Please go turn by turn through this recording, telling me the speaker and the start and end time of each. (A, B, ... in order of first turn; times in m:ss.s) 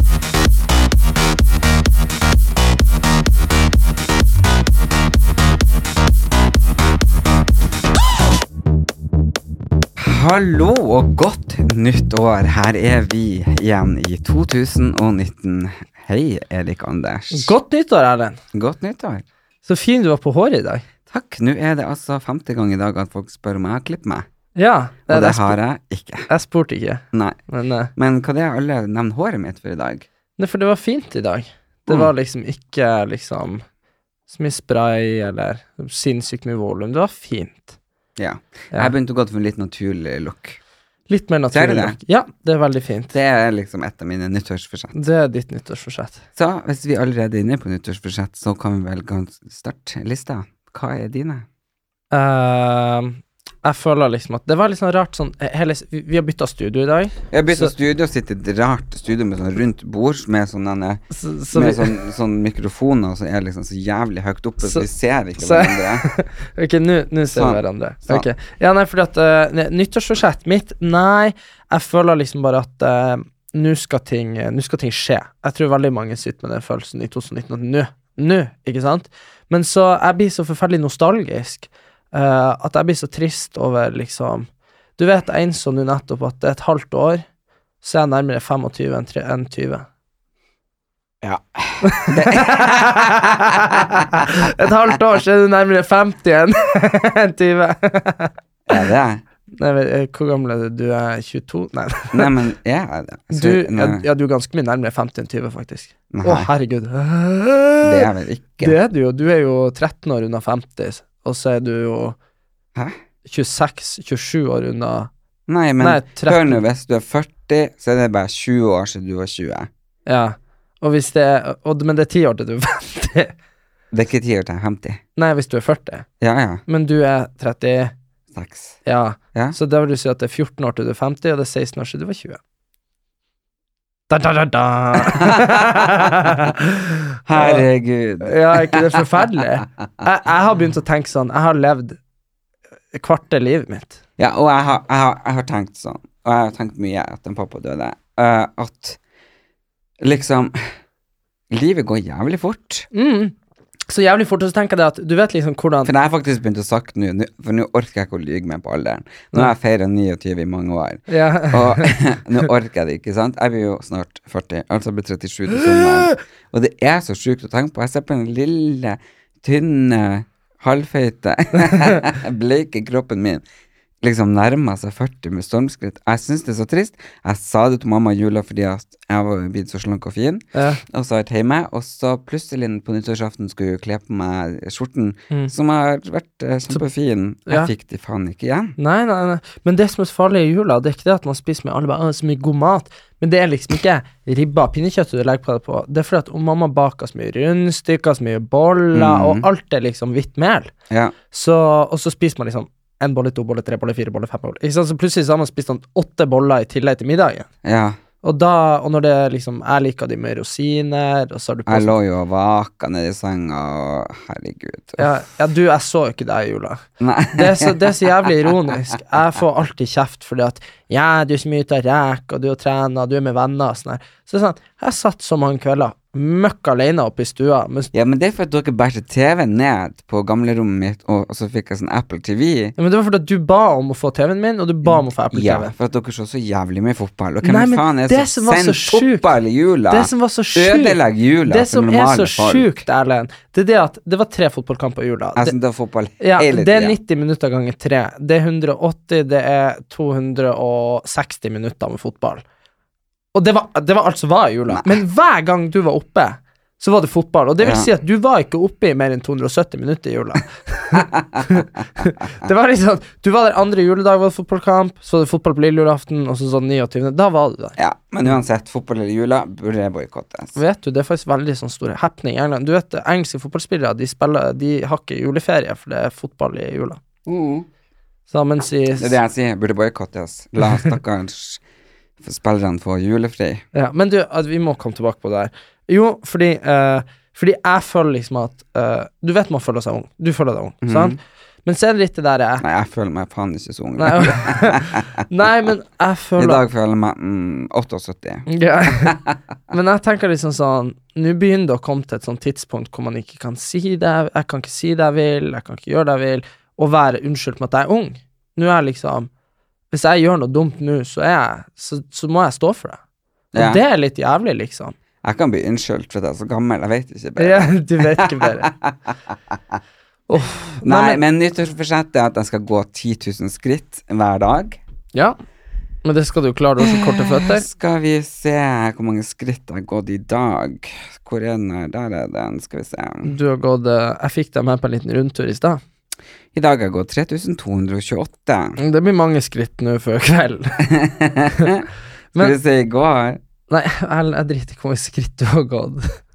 0:10.0-0:17.5 A
0:17.3-0:18.4 B
0:18.5-0:19.2 A
0:19.6-0:20.8 B
0:21.1-0:24.2 A
0:24.6-0:25.6 B
0:25.1-0:26.3 A
0:26.3-0:27.9 B
0:27.1-0:27.4 A
0:28.0-0:30.0 A
0:30.4-0:33.6 B
0:34.3-0:37.8 B
0:38.2-0:40.6 A
0:41.1-0:43.1 B
0:41.5-0:42.0 A
0:43.1-0:45.0 A
0:44.9-0:46.2 B
0:46.4-0:51.4 A
0:52.1-0:57.7 B
0:57.3-1:06.0 A
1:01.1-1:02.0 B
1:05.4-1:27.2 B
1:07.3-1:08.3 A
1:27.8-1:29.8 B
1:31.2-1:33.0 A
1:31.8-1:38.8 B
1:38.7-1:39.2 A
1:39.6-1:42.3 B
1:42.1-1:44.0 A
1:43.3-1:48.1 B
1:46.1-1:46.5 A
1:47.8-1:48.8 A
1:48.6-1:52.2 B
1:53.2-1:55.1 B
1:55.5-1:59.7 A
1:55.8-1:56.6 B
2:00.0-2:03.3 B
2:03.9-2:05.0 A
2:05.2-2:06.0 B
2:06.2-2:06.6 A
2:06.7-2:07.9 B
2:08.3-2:08.8 A
2:08.8-2:12.4 B
2:14.1-2:17.6 B
2:15.0-2:15.9 A
2:17.3-2:19.0 A
2:18.2-2:22.0 B
2:22.9-2:24.0 B
2:24.2-2:29.0 A
2:30.0-2:30.6 A
2:31.5-2:32.9 A
2:32.9-2:33.3 B
2:33.9-2:35.9 B
2:35.8-2:53.4 A
2:41.1-2:42.0 B
2:54.0-3:08.8 A
3:00.5-3:00.8 B
3:08.8-3:20.7 B
3:18.9-3:19.4 A
3:20.9-3:21.1 A
3:21.3-3:27.5 B
3:27.6-3:28.0 A
3:28.2-3:31.9 B
3:31.6-3:35.1 A
3:35.0-3:36.8 B
3:37.0-3:38.0 A
3:37.3-3:47.9 B
3:47.9-3:52.7 A
3:52.8-3:55.7 B
3:54.8-4:02.8 A
3:57.4-3:59.3 B
3:59.9-4:05.5 B
4:05.4-4:07.0 A
4:06.2-4:12.4 B
4:13.3-4:27.8 B
4:17.6-4:17.9 A
4:27.8-4:30.6 A
4:30.5-4:37.0 B
4:37.2-4:37.7 A
4:38.3-4:39.2 B
4:39.0-4:41.6 A
4:42.2-4:43.6 A
4:43.7-4:52.6 B
4:50.8-4:51.2 A
4:52.6-4:55.2 A
4:54.0-4:56.6 B
4:56.4-4:59.3 A
4:58.5-4:59.2 B
4:59.7-5:09.3 B
5:09.9-5:13.0 B
5:13.5-5:13.8 A
5:13.5-5:14.9 B
5:15.2-5:19.8 A
5:17.4-5:18.7 B
5:20.3-5:21.2 B
5:20.8-5:24.8 A
5:26.0-5:27.6 B
5:26.8-5:33.3 A
5:33.2-5:35.8 B
5:36.5-5:38.8 A
5:38.8-5:40.8 B
5:40.8-5:43.4 A
5:43.7-5:46.2 B